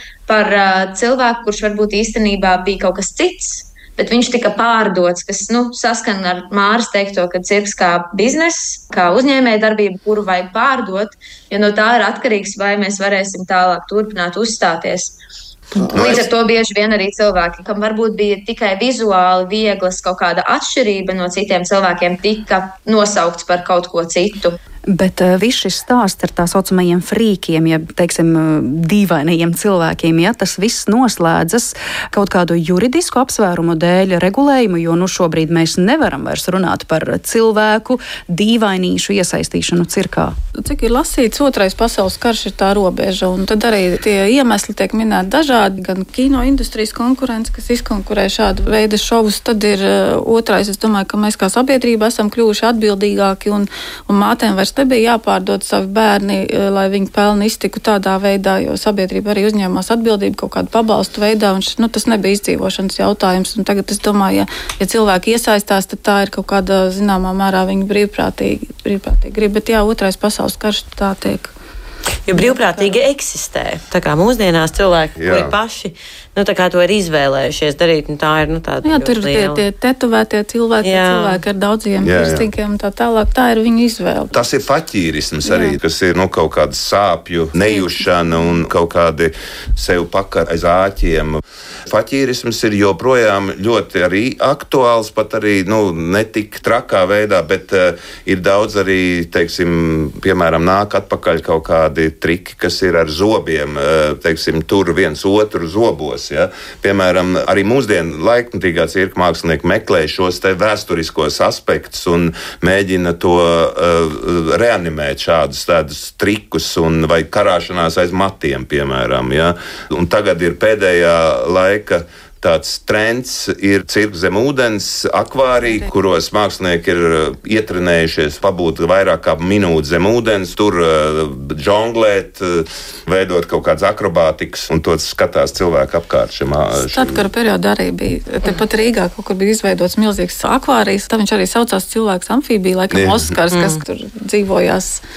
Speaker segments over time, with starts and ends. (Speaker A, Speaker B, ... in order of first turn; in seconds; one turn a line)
Speaker A: 0.3-15.1
Speaker B: 15.9-16.2
Speaker A: 15.9-24.6
Speaker C: 24.9-40.3
Speaker D: 40.6-71.5
Speaker E: 72.3-79.6
Speaker D: 72.3-73.0
Speaker B: 75.2-75.5
Speaker D: 78.8-84.3
Speaker E: 80.8-81.4
Speaker B: 82.0-82.5
Speaker B: 84.3-137.2
Speaker D: 85.4-85.8
Speaker D: 87.7-88.5
Speaker D: 125.6-125.9
Speaker D: 136.7-145.0
Speaker B: 142.9-143.4
Speaker E: 143.5-143.8